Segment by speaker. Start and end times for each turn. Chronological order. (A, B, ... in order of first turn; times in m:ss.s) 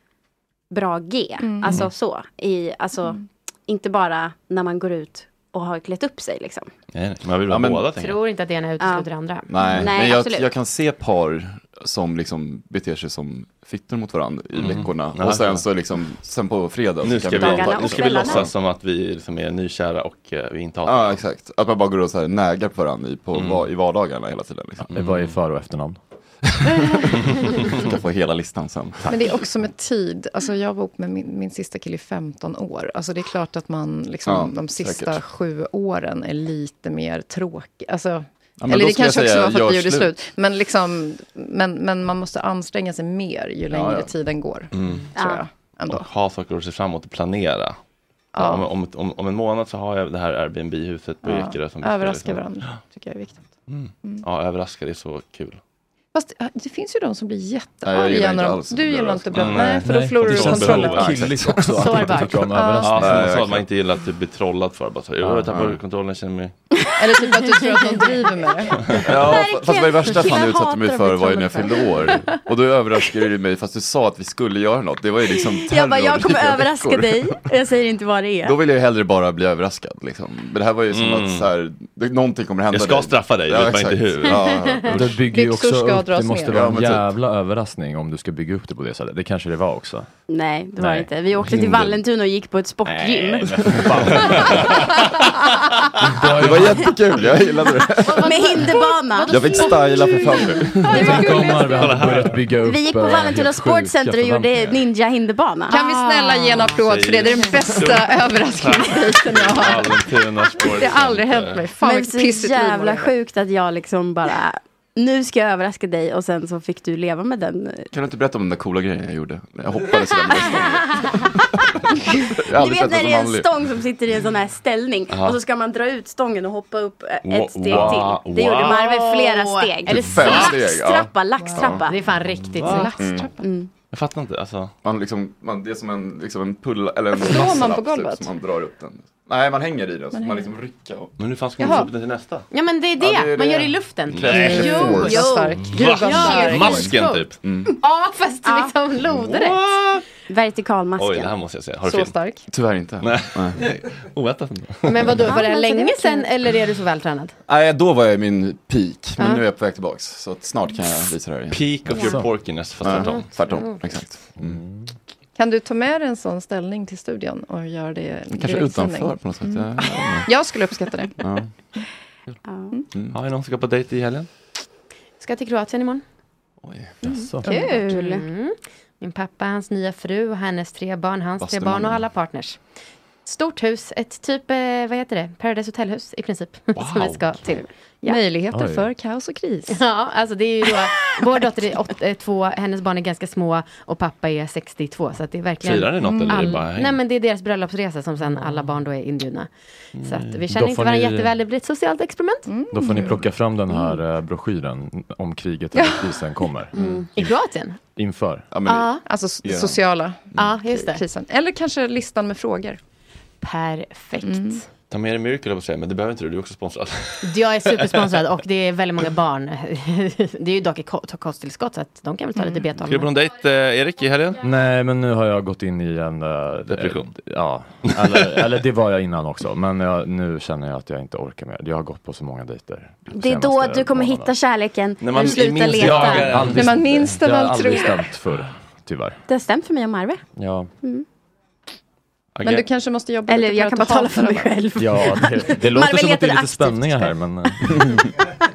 0:00.7-0:06.7 A
0:01.4-0:01.9 B
0:03.0-0:03.3 B
0:06.9-0:08.2 C
0:07.5-0:07.9 D
0:08.0-0:09.5 E
0:08.8-0:09.1 A
0:09.5-0:18.5 D
0:09.6-0:10.5 A
0:14.6-0:15.6 C
0:17.0-0:21.2 C
0:17.3-0:18.5 A
0:20.8-0:24.9 D
0:23.4-0:23.6 C
0:24.9-0:26.0 F
0:27.6-0:29.1 D
0:29.1-0:46.1 B
0:34.3-0:35.2 D
0:38.6-0:40.1 D
0:43.7-0:44.1 D
0:44.7-0:45.1 C
0:45.1-0:45.4 A
0:45.9-0:47.8 C
0:48.3-0:48.7 B
0:48.3-0:52.8 C
0:51.2-0:54.2 B
0:53.7-0:55.6 C
0:56.1-1:01.1 B
0:57.8-0:59.8 D
0:59.3-1:02.1 C
0:59.8-1:03.3 F
1:01.7-1:02.5 E
1:02.4-1:03.1 B
1:02.8-1:06.5 C
1:03.0-1:03.6 D
1:05.5-1:05.8 D
1:06.8-1:08.3 A
1:07.0-1:09.0 B
1:09.0-1:17.4 D
1:09.1-1:12.3 A
1:15.6-1:18.6 A
1:18.4-1:25.0 D
1:20.9-1:21.5 C
1:22.7-1:25.1 C
1:24.9-1:30.1 F
1:25.2-1:26.7 B
1:26.5-1:27.1 D
1:30.3-1:34.3 A
1:30.8-1:31.9 F
1:32.8-1:34.7 F
1:33.9-1:34.9 C
1:36.2-1:36.9 F
1:36.3-1:38.3 D
1:38.2-1:39.7 A
1:38.2-1:41.7 B
1:39.3-1:41.1 D
1:40.9-1:41.7 A
1:40.9-1:42.4 C
1:40.9-1:44.8 F
1:42.6-1:46.0 A
1:45.7-1:53.1 B
1:46.6-1:51.7 C
1:51.8-1:57.9 A
1:57.9-2:01.6 D
2:02.4-2:03.6 D
2:02.5-2:11.9 A
2:05.1-2:05.4 C
2:07.2-2:08.8 C
2:08.6-2:10.6 E
2:09.9-2:11.8 D
2:11.7-2:13.0 E
2:12.4-2:12.9 C
2:12.6-2:13.4 B
2:13.0-2:13.3 D
2:13.4-2:13.7 A
2:13.9-2:14.7 C
2:14.8-2:21.1 D
2:17.1-2:18.3 B
2:20.1-2:20.5 B
2:21.2-2:22.5 C
2:21.6-2:21.9 B
2:22.5-2:25.2 E
2:23.0-2:25.3 D
2:24.1-2:24.9 C
2:24.4-2:26.8 B
2:24.6-2:26.6 A
2:25.6-2:27.4 C
2:25.8-2:29.7 E
2:27.4-2:27.7 D
2:28.4-2:28.7 A
2:29.1-2:30.0 C
2:30.3-2:31.3 A
2:31.0-2:32.2 C
2:31.8-2:32.4 B
2:32.5-2:33.6 D
2:33.0-2:35.2 C
2:34.9-2:37.3 E
2:35.2-2:36.3 A
2:35.3-2:35.5 B
2:37.5-2:41.6 D
2:39.2-2:39.4 E
2:41.5-2:43.3 C
2:42.0-2:42.2 F
2:42.8-2:44.6 D
2:43.1-2:43.8 E
2:44.6-2:44.8 F
2:45.4-2:49.7 B
2:48.3-2:50.3 D
2:50.2-2:51.8 B
2:51.2-2:51.5 D
2:52.5-2:52.7 A
2:53.1-2:54.3 C
2:55.2-2:56.0 E
2:56.6-2:56.9 D
2:57.0-2:57.4 F
2:57.4-2:58.2 A
2:57.4-2:57.8 B
2:57.8-3:02.6 E
3:01.4-3:02.0 D
3:03.3-3:08.2 E
3:06.8-3:07.4 C
3:08.0-3:09.8 B
3:08.5-3:08.9 F
3:09.7-3:19.5 E
3:15.6-3:17.0 C
3:16.0-3:16.5 B
3:19.9-3:20.5 C
3:20.0-3:22.6 E
3:20.5-3:21.3 F
3:22.4-3:23.2 B
3:22.7-3:26.7 F
3:25.8-3:26.1 B
3:26.7-3:27.0 A
3:26.8-3:27.8 E
3:27.9-3:28.5 F
3:28.5-3:30.5 D
3:28.6-3:29.0 E
3:29.0-3:32.8 B
3:30.4-3:31.0 E
3:33.4-3:34.6 E
3:34.2-3:34.6 B
3:34.9-3:38.0 C
3:37.2-3:43.1 E
3:42.4-3:42.6 B
3:42.8-3:44.4 C
3:44.4-3:54.4 F
3:46.7-3:47.1 C
3:47.9-3:48.3 C
3:53.1-3:56.4 A
3:55.0-3:56.8 C
3:55.7-3:59.2 F
3:56.4-3:58.1 B
3:59.3-4:00.2 A
4:00.4-4:00.7 F
4:02.4-4:02.6 C
4:02.4-4:04.6 B
4:03.3-4:07.1 A
4:04.7-4:08.0 F